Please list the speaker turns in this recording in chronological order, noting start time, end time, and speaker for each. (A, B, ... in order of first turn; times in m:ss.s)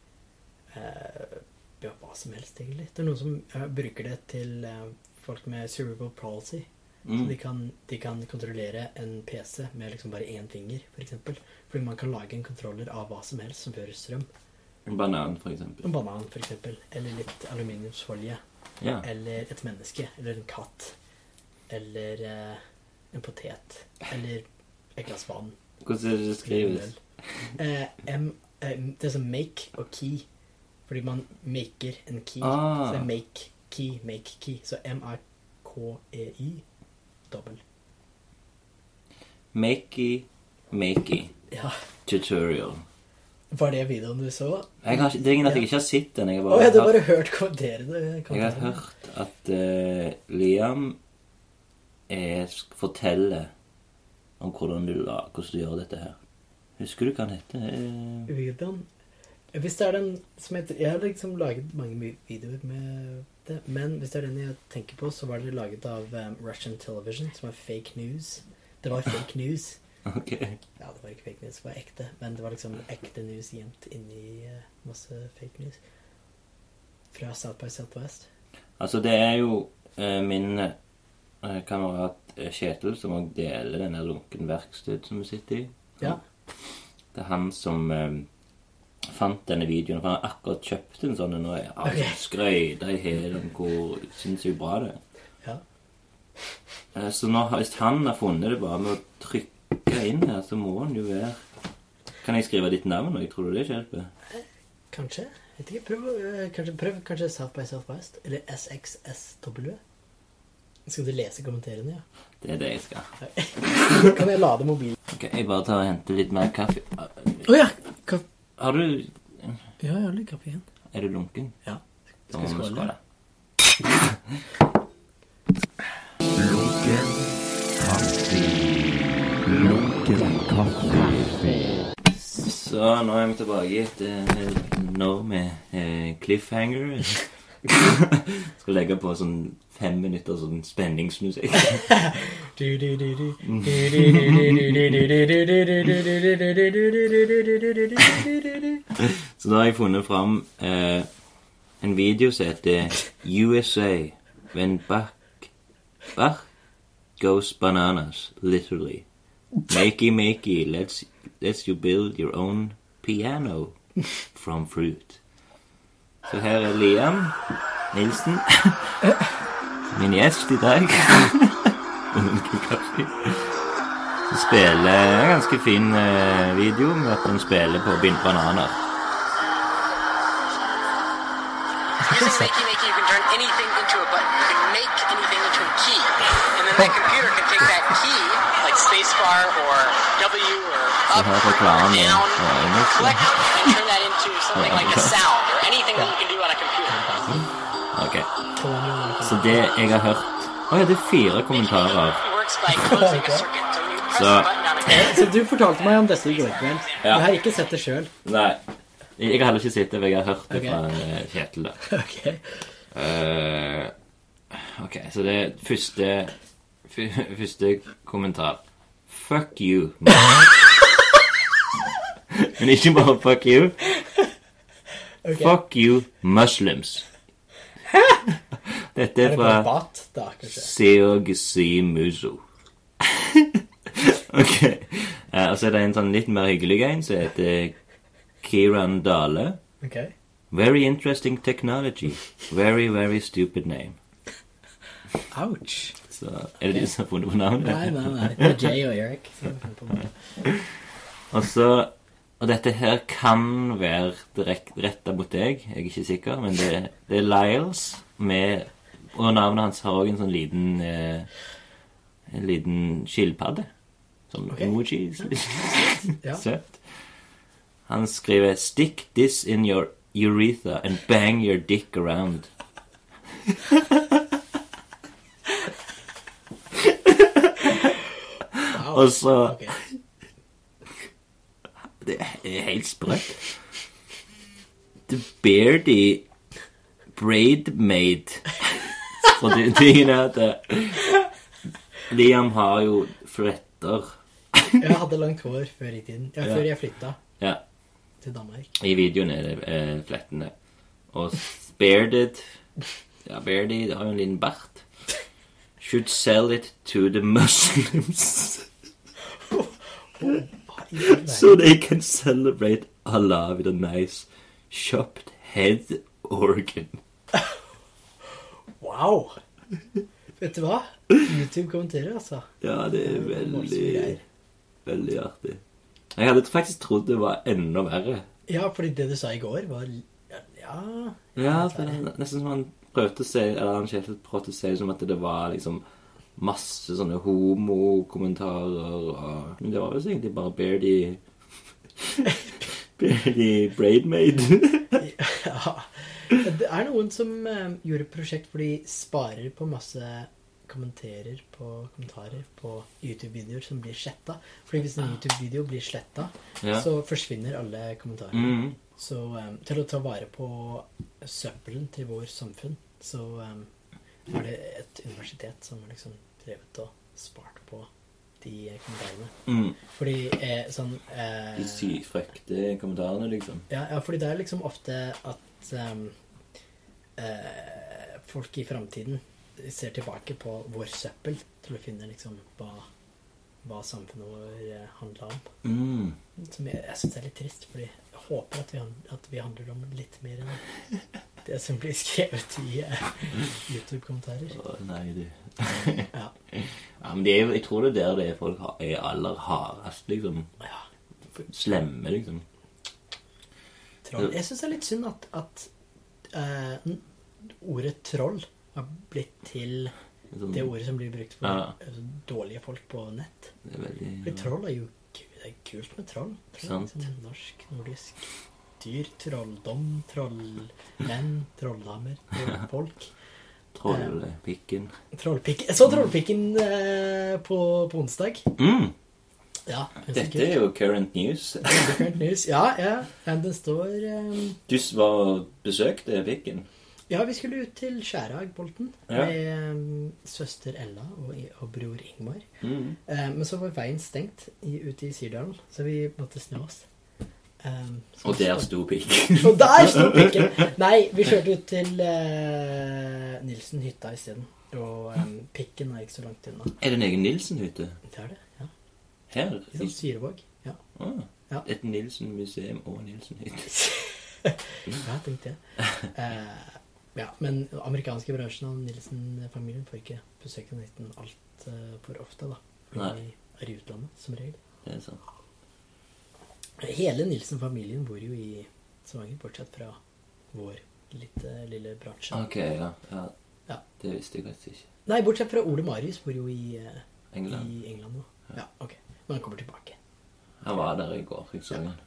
0:00.7-0:14.3 A
0:07.0-0:07.3 B
0:14.9-0:15.8 B
0:15.8-0:18.4 A
0:19.0-0:21.0 A
0:21.7-0:22.6 A
0:23.1-0:24.4 A
0:25.0-0:25.6 A
0:25.8-0:26.9 B
0:26.4-0:27.0 A
0:27.6-0:30.3 A
0:30.9-0:36.6 A
0:32.4-0:33.1 B
0:37.3-0:37.6 A
0:39.5-0:41.3 B
0:41.5-0:41.8 A
0:42.1-0:42.8 B
0:43.5-0:45.7 A
0:44.8-0:47.0 B
0:46.5-0:48.8 A
0:48.3-0:51.0 B
0:52.1-0:53.5 B
0:54.4-0:56.2 B
0:56.8-0:58.3 B
0:58.3-0:58.9 A
0:59.5-1:09.8 A
1:10.0-1:10.6 B
1:10.8-1:15.8 A
1:17.1-1:18.3 A
1:18.8-1:20.8 B
1:21.4-1:26.2 B
1:27.1-1:28.3 B
1:29.0-1:35.0 B
1:31.8-1:32.2 A
1:37.0-1:41.4 B
1:42.2-1:44.1 B
1:44.3-1:49.8 A
1:50.9-1:52.0 A
1:52.4-1:53.1 B
1:53.2-1:55.0 A
1:55.1-1:57.5 B
1:57.4-1:58.2 A
1:58.6-1:59.7 B
1:59.8-2:00.6 A
2:00.9-2:01.6 B
2:01.6-2:02.9 A
2:02.3-2:03.0 B
2:06.3-2:11.9 C
2:12.1-2:21.9 B
2:21.8-2:28.6 A
2:23.4-2:24.8 B
2:29.0-2:31.1 B
2:31.8-2:35.5 B
2:36.1-2:36.5 B
2:37.2-2:39.0 B
2:39.7-2:43.8 B
2:44.3-2:45.2 B
2:46.3-2:47.4 B
2:47.9-2:49.1 B
2:49.9-2:53.6 B
2:54.3-2:58.8 B
3:02.0-3:02.5 A
3:02.0-3:17.2 D
3:11.1-3:13.5 B
3:14.5-3:15.2 B
3:16.9-3:17.6 A
3:17.9-3:18.3 B
3:18.6-3:19.7 A
3:19.2-3:22.2 B
3:21.6-3:27.4 D
3:22.8-3:23.5 A
3:24.1-3:24.5 B
3:24.9-3:28.1 A
3:27.0-3:27.3 B
3:28.2-3:28.6 B
3:29.2-3:31.8 B
3:30.5-3:30.8 A
3:31.8-3:32.7 A
3:32.9-3:33.9 B
3:34.5-3:36.4 B
3:36.9-3:40.5 B
3:42.4-3:43.8 B
3:44.0-3:44.3 A
3:45.2-3:45.5 A
3:45.4-3:47.1 B
3:47.9-3:48.2 A
3:48.8-3:49.7 B
3:49.2-3:50.7 A
3:50.4-3:52.4 B
3:53.0-3:57.8 B
3:58.4-3:59.6 B
3:59.8-4:00.1 A
4:00.5-4:04.0 B
4:05.3-4:06.0 A
4:06.1-4:08.6 B
4:07.6-4:10.2 A
4:11.3-4:21.3 B
4:22.3-4:23.7 B
4:24.3-4:26.8 B
4:24.5-4:26.4 A
4:27.9-4:32.5 B
4:33.5-4:34.0 B
4:36.8-4:37.8 B
4:38.6-4:39.9 B
4:38.7-4:39.8 A
4:42.0-4:43.5 B
4:45.1-4:46.3 B
4:47.1-4:51.1 B
4:52.1-4:54.8 B
4:54.8-4:57.2 A
4:56.4-4:56.7 B
4:58.2-4:58.7 A
4:58.8-5:00.5 B
5:01.1-5:02.4 B
5:03.2-5:04.8 B
5:05.8-5:08.7 B
5:09.5-5:11.6 A
5:11.0-5:17.0 B
5:18.8-5:19.4 A
5:20.4-5:24.2 A
5:22.6-5:24.2 B
5:24.8-5:25.6 B
5:26.1-5:28.3 B
5:28.5-5:32.0 A
5:31.4-5:35.8 B
5:36.4-5:41.2 B
5:42.0-5:42.3 B
5:43.0-5:45.0 B
5:45.0-6:03.7 A
5:58.3-5:58.8 B
6:04.3-6:07.9 A
6:08.4-6:12.0 A
6:09.5-6:09.8 B
6:11.6-6:13.7 B
6:13.7-6:16.2 A
6:17.2-6:22.9 A
6:23.6-6:25.5 A
6:25.6-6:26.2 B
6:26.4-6:30.6 A
6:31.4-6:34.6 A
6:34.5-6:40.5 B
6:41.5-6:42.4 B
6:44.0-6:45.7 A
6:46.3-6:49.9 A
6:50.3-6:50.7 B
6:50.5-6:53.5 A
6:51.4-6:51.7 B
6:53.6-6:54.5 B
6:54.2-6:58.3 A
6:56.6-6:57.0 B
6:58.8-7:03.1 A
7:03.7-7:05.0 B
7:03.9-7:04.2 A
7:05.1-7:08.5 A
7:08.6-7:08.9 B
7:09.7-7:10.6 A
7:10.1-7:12.0 B
7:11.6-7:14.6 A
7:14.7-7:16.7 B
7:17.1-7:22.4 A
7:22.6-7:23.0 B
7:23.1-7:26.9 A
7:27.6-7:28.7 A
7:28.2-7:30.4 B
7:29.4-7:36.8 A
7:36.8-7:38.0 B
7:38.1-7:38.7 A
7:39.3-7:40.0 B
7:39.7-7:40.8 A
7:41.0-7:43.7 B
7:43.8-7:54.6 A
7:54.8-7:55.2 B
7:56.8-8:00.0 A
8:00.5-8:02.4 A
8:02.3-8:03.3 B
8:04.0-8:04.9 B
8:05.1-8:10.0 A
8:07.3-8:07.7 B
8:10.6-8:12.0 B